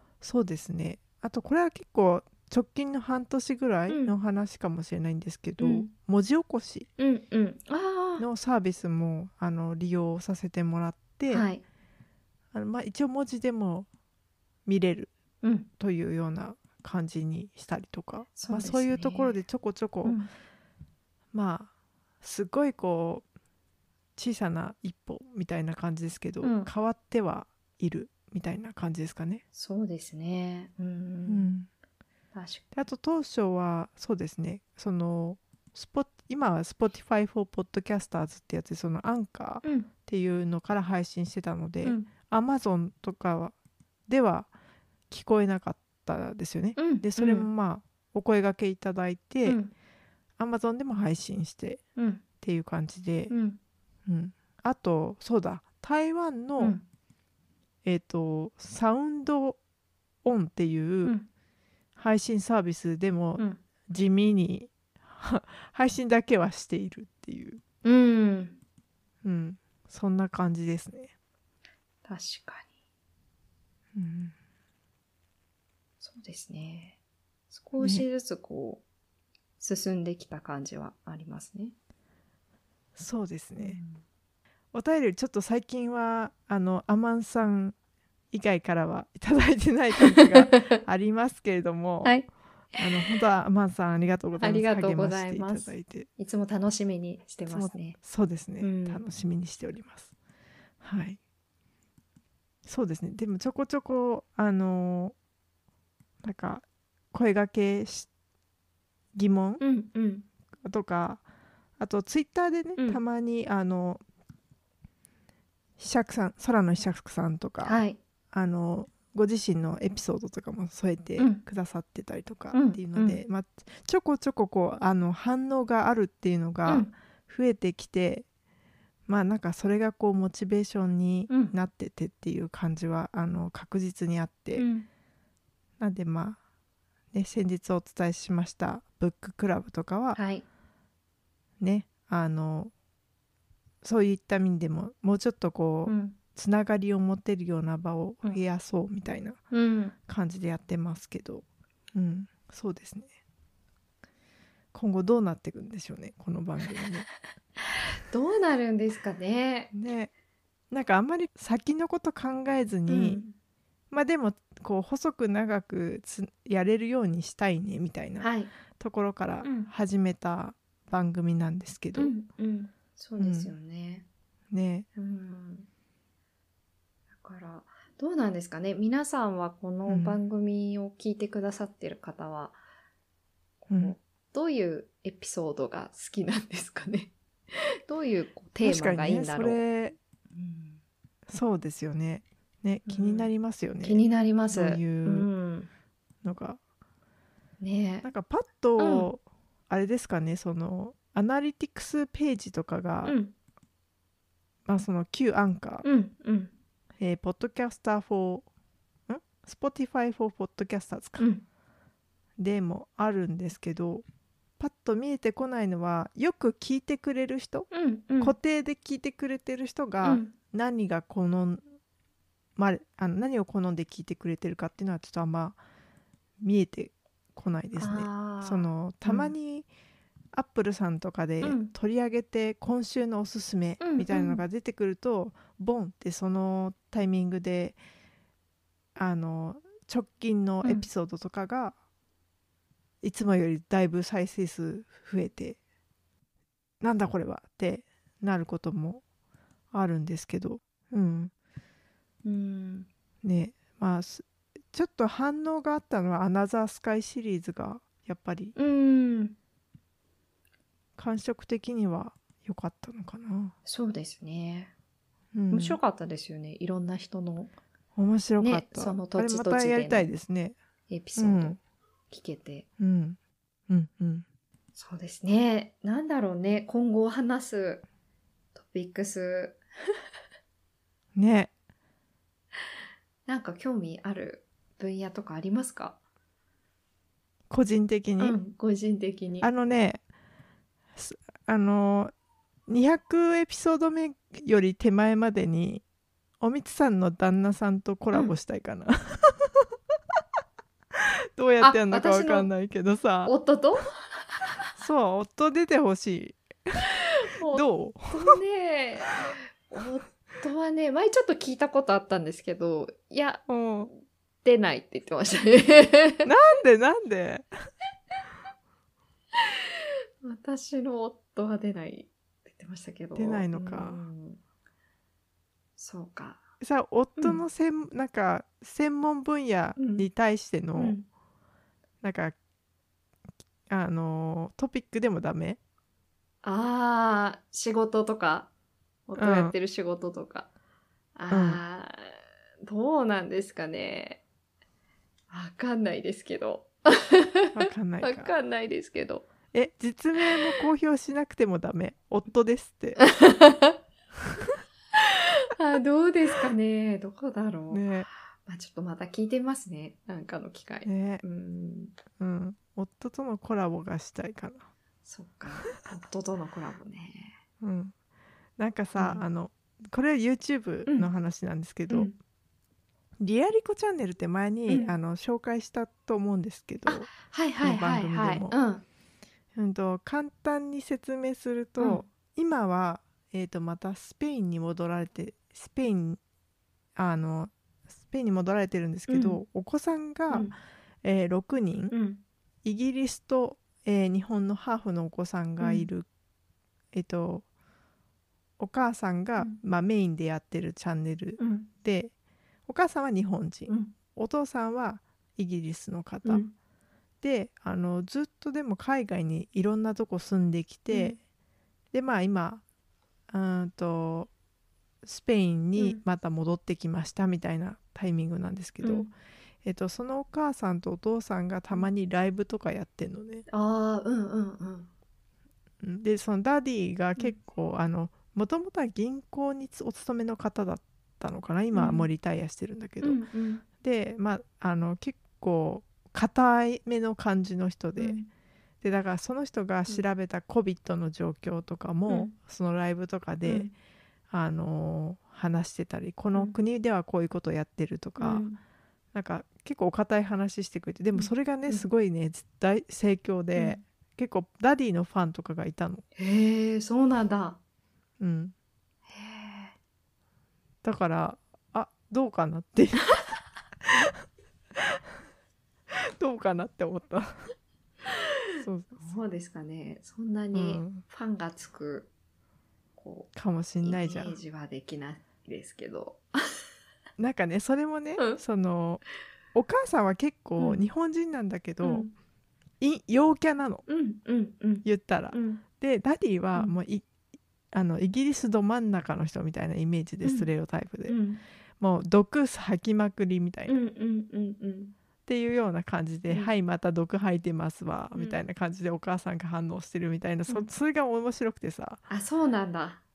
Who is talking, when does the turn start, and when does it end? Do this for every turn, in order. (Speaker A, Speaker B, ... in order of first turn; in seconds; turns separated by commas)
Speaker A: 0.2-6.9, Speaker B: 5.6-5.9, Speaker B: 7.0-8.2, Speaker A: 8.2-11.5, Speaker B: 11.3-11.6, Speaker A: 12.5-13.9, Speaker A: 14.7-15.1, Speaker B: 15.4-15.7, Speaker A: 15.8-20.2, Speaker B: 18.4-19.4, Speaker B: 20.0-20.3, Speaker A: 21.3-21.7, Speaker A: 22.2-23.2, Speaker A: 24.2-29.4, Speaker B: 26.4-26.7, Speaker B: 29.5-31.5, Speaker A: 31.3-31.7, Speaker B: 32.3-32.7, Speaker A: 32.7-43.5, Speaker B: 39.6-39.9, Speaker B: 41.8-42.1, Speaker A: 44.1-44.5, Speaker A: 45.1-49.6, Speaker B: 46.8-47.5, Speaker B: 49.4-49.7, Speaker A: 50.4-51.8, Speaker B: 52.0-52.2, Speaker A: 52.4-53.3, Speaker B: 53.3-53.6, Speaker A: 54.0-56.8, Speaker A: 57.8-59.6, Speaker A: 60.2-61.1, Speaker A: 62.0-67.6, Speaker B: 67.8-68.6, Speaker A: 69.2-71.1, Speaker B: 72.0-72.7, Speaker A: 73.9-74.3, Speaker B: 76.0-77.0, Speaker B: 77.5-78.8, Speaker A: 77.8-78.0, Speaker B: 79.6-81.7, Speaker A: 83.0-83.8, Speaker B: 83.6-84.0, Speaker A: 84.7-87.7, Speaker A: 88.3-92.2, Speaker B: 90.1-90.8, Speaker B: 92.0-93.2, Speaker A: 92.8-96.1, Speaker B: 94.4-98.0, Speaker A: 97.5-100.1, Speaker B: 98.6-99.0, Speaker A: 100.8-101.2, Speaker A: 102.6-105.1, Speaker A: 106.2-108.1, Speaker A: 109.1-109.6, Speaker B: 109.6-110.2, Speaker A: 110.6-111.2, Speaker A: 111.8-114.0, Speaker A: 115.8-117.8, Speaker B: 117.6-118.0, Speaker A: 118.3-128.2, Speaker B: 122.5-123.2, Speaker B: 126.7-126.9, Speaker A: 129.1-134.7, Speaker B: 131.3-131.5, Speaker B: 134.6-134.8, Speaker A: 135.8-136.4, Speaker A: 137.1-140.2, Speaker B: 140.1-140.4, Speaker A: 141.6-142.7, Speaker A: 143.8-149.4, Speaker B: 145.9-146.2, Speaker B: 149.5-149.9, Speaker A: 150.1-153.1, Speaker A: 154.7-157.1, Speaker B: 158.0-159.7, Speaker A: 159.7-160.1, Speaker A: 160.7-163.2, Speaker B: 162.9-163.3, Speaker A: 163.9-172.1, Speaker B: 168.2-168.5, Speaker B: 169.4-169.7, Speaker B: 171.9-174.1, Speaker A: 173.2-173.5, Speaker A: 174.5-174.9, Speaker B: 174.9-175.7, Speaker B: 177.2-182.6, Speaker A: 179.9-180.2, Speaker B: 183.6-189.6, Speaker A: 183.7-183.9, Speaker A: 188.6-189.9, Speaker B: 190.3-190.8, Speaker A: 191.3-195.3, Speaker B: 192.8-193.3, Speaker B: 193.8-195.7, Speaker A: 196.2-196.6, Speaker B: 197.6-198.1, Speaker A: 198.0-203.2, Speaker B: 198.8-199.1, Speaker B: 203.0-203.3, Speaker A: 204.7-205.8, Speaker B: 205.8-206.5, Speaker A: 207.0-208.5, Speaker A: 209.1-211.3, Speaker B: 211.2-211.4, Speaker A: 212.4-214.0, Speaker A: 214.6-221.6, Speaker B: 217.7-218.3, Speaker B: 220.0-220.3, Speaker A: 222.6-225.6, Speaker A: 226.4-229.7, Speaker B: 227.8-229.3, Speaker A: 230.3-237.8, Speaker B: 231.4-231.7, Speaker B: 233.8-234.4, Speaker A: 238.9-241.7, Speaker A: 243.0-245.6, Speaker A: 246.8-249.0, Speaker A: 249.7-251.3, Speaker B: 252.2-252.9, Speaker A: 253.2-258.5, Speaker B: 258.6-259.4, Speaker A: 261.0-263.5, Speaker B: 263.6-264.7, Speaker A: 265.3-265.8, Speaker B: 265.5-267.5, Speaker A: 267.9-270.6, Speaker B: 268.4-270.1, Speaker B: 270.9-271.6, Speaker A: 271.1-271.6, Speaker B: 272.1-272.6, Speaker A: 272.8-273.2, Speaker A: 273.7-274.2, Speaker B: 274.8-277.8, Speaker B: 278.5-279.6, Speaker A: 281.1-281.5, Speaker B: 283.2-286.0, Speaker A: 287.5-288.4, Speaker B: 288.2-289.5, Speaker A: 289.4-290.0, Speaker A: 290.9-292.1, Speaker A: 292.7-295.8, Speaker A: 296.4-299.6, Speaker A: 301.0-303.3, Speaker B: 301.6-302.5, Speaker B: 303.2-304.5, Speaker A: 304.8-306.9, Speaker B: 307.0-313.9, Speaker A: 307.5-308.4, Speaker A: 313.5-313.9, Speaker B: 314.4-316.3, Speaker A: 316.2-317.5, Speaker B: 319.4-319.6, Speaker B: 320.2-324.4, Speaker A: 323.1-324.0, Speaker B: 325.8-326.4, Speaker A: 326.6-331.0, Speaker B: 327.2-327.4, Speaker B: 329.8-330.1, Speaker B: 330.8-331.1, Speaker A: 332.0-332.3, Speaker A: 333.7-335.6, Speaker B: 336.4-338.5, Speaker B: 339.1-340.5, Speaker A: 339.2-339.5, Speaker B: 341.1-344.2, Speaker A: 341.3-341.6, Speaker B: 345.3-349.3, Speaker A: 347.5-348.3, Speaker A: 349.5-353.0, Speaker B: 353.0-353.8, Speaker B: 354.9-357.9, Speaker A: 357.7-358.1, Speaker B: 358.4-362.0, Speaker A: 360.8-361.2, Speaker A: 362.2-364.7, Speaker B: 365.1-367.4, Speaker A: 367.6-367.9, Speaker A: 368.6-372.1, Speaker B: 368.9-369.2, Speaker B: 371.9-372.1, Speaker A: 373.2-377.1, Speaker B: 374.7-374.9, Speaker B: 376.9-378.8, Speaker A: 377.6-378.6, Speaker A: 379.5-386.2, Speaker B: 381.8-382.0, Speaker A: 386.9-390.5, Speaker B: 389.1-389.4, Speaker A: 391.0-391.9, Speaker B: 391.9-392.2, Speaker A: 392.6-396.1, Speaker B: 395.6-395.9, Speaker A: 396.9-397.4, Speaker A: 398.6-402.1, Speaker B: 401.4-401.7, Speaker A: 402.7-406.4, Speaker B: 403.7-403.9, Speaker B: 406.2-406.5, Speaker A: 407.2-411.2, Speaker B: 410.9-411.2, Speaker A: 411.9-412.6, Speaker A: 413.3-414.3, Speaker A: 415.0-419.1, Speaker B: 418.8-419.1, Speaker A: 419.6-423.4, Speaker B: 423.5-424.9, Speaker A: 425.8-433.2, Speaker B: 431.7-432.1, Speaker B: 433.0-433.6, Speaker A: 433.8-438.2, Speaker B: 438.0-438.3, Speaker A: 438.8-443.7, Speaker B: 442.1-442.3, Speaker B: 443.4-443.7, Speaker A: 444.3-448.5, Speaker B: 448.2-448.6, Speaker A: 449.1-456.0, Speaker B: 451.1-451.8, Speaker B: 453.6-453.8, Speaker B: 456.2-457.6, Speaker A: 458.2-458.5, Speaker B: 459.1-459.7, Speaker A: 460.8-463.3, Speaker A: 463.8-464.2, Speaker A: 465.9-467.5, Speaker A: 468.6-469.2, Speaker B: 468.9-472.1, Speaker A: 470.5-471.0, Speaker B: 473.0-473.3, Speaker A: 473.3-474.4, Speaker B: 473.8-476.5, Speaker A: 477.2-479.0, Speaker A: 479.5-482.1, Speaker B: 480.6-480.9, Speaker B: 481.8-482.1, Speaker A: 482.8-483.9, Speaker B: 483.9-485.6, Speaker A: 484.8-487.1, Speaker A: 487.7-491.2, Speaker B: 490.2-490.5, Speaker B: 491.1-491.4, Speaker A: 491.8-493.7, Speaker B: 493.7-494.9, Speaker A: 495.2-502.0, Speaker B: 498.1-498.4, Speaker B: 502.1-503.0